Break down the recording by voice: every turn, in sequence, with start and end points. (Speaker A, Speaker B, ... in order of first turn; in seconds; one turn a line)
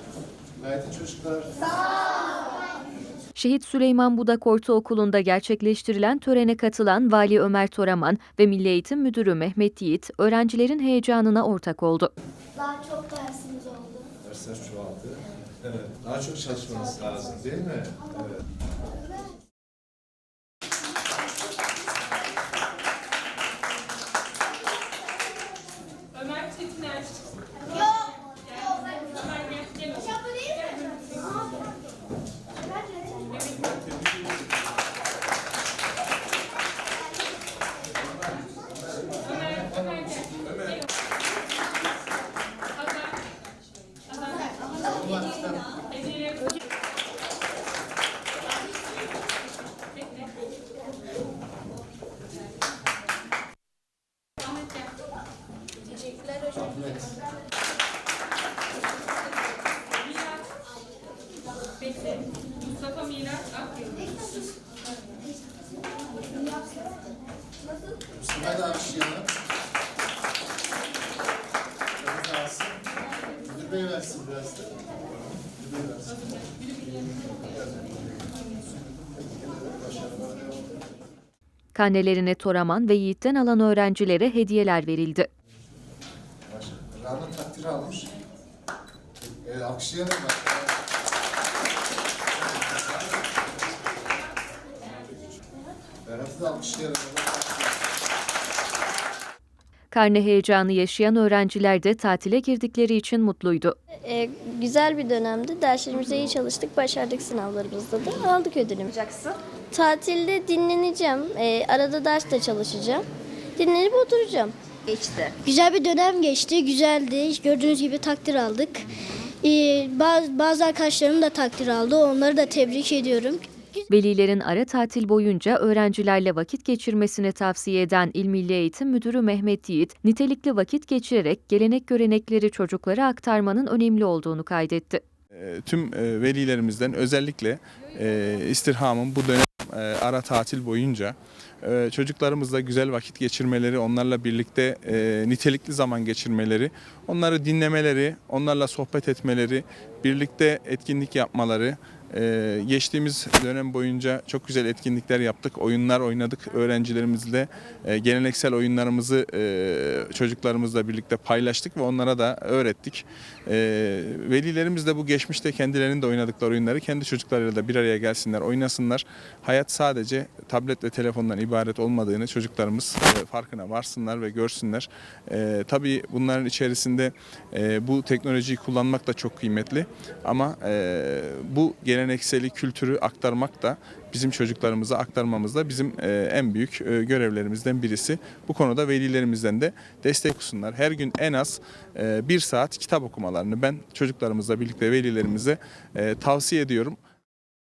Speaker A: 0.6-1.7
Speaker B: 3.4-12.1
Speaker C: 12.7-13.9
Speaker A: 14.2-15.2
Speaker A: 15.8-18.2
Speaker A: 39.0-40.7
Speaker A: 44.8-45.6
Speaker A: 56.6-57.1
Speaker A: 68.1-69.3
Speaker A: 72.0-72.8
Speaker A: 73.4-74.8
Speaker A: 75.5-78.4
Speaker A: 79.2-80.7
Speaker B: 81.7-85.3
Speaker A: 86.5-88.1
Speaker A: 89.4-90.7
Speaker A: 96.0-97.7
Speaker B: 99.9-103.8
Speaker D: 104.0-109.0
Speaker D: 109.7-113.0
Speaker D: 113.6-114.5
Speaker C: 115.4-118.9
Speaker C: 119.4-123.5
Speaker B: 123.9-135.0
Speaker E: 135.3-197.0